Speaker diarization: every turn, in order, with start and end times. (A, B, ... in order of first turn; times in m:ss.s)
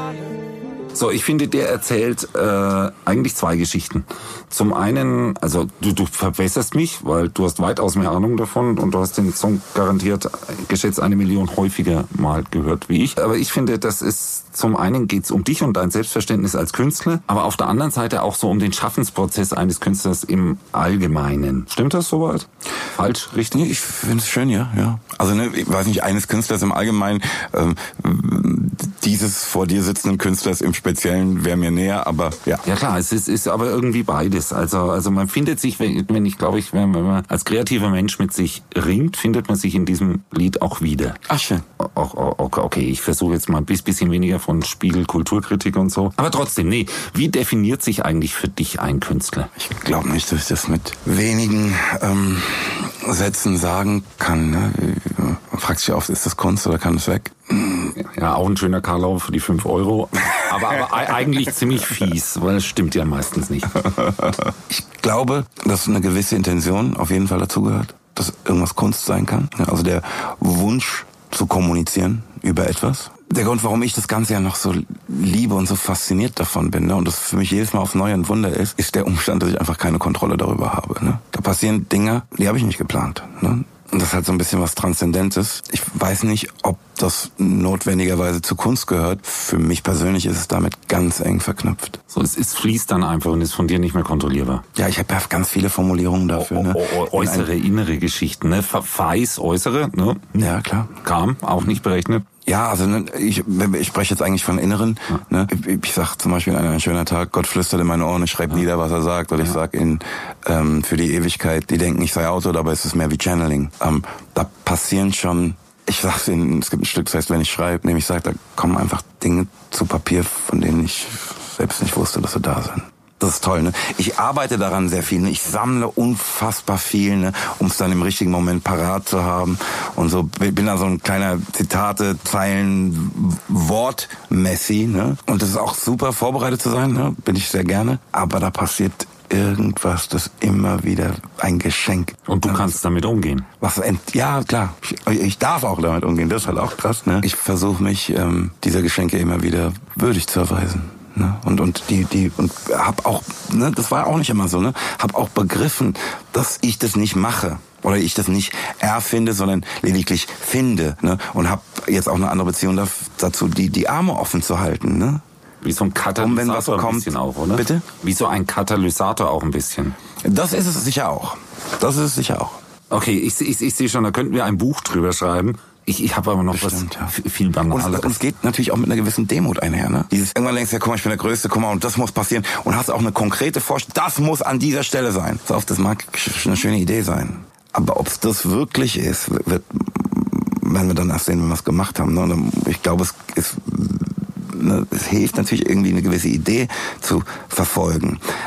0:00.9-0:23.7 A
0:23.5-0:32.6 B
0:32.6-0:41.2 A
0:41.3-0:41.6 B
0:41.8-0:49.5 A
0:49.6-0:57.9 B
0:58.0-1:03.8 A
1:04.1-1:32.0 B
1:32.1-1:34.6 A
1:34.7-1:37.5 B
1:36.3-1:42.2 A
1:40.4-1:40.9 B
1:42.4-2:22.8 B
2:22.3-2:23.5 A
2:23.6-2:45.2 B
2:45.6-2:49.9 A
2:46.2-2:47.8 B
2:50.2-2:52.6 B
2:52.9-2:58.2 A
2:56.5-2:57.1 B
2:57.7-3:18.2 B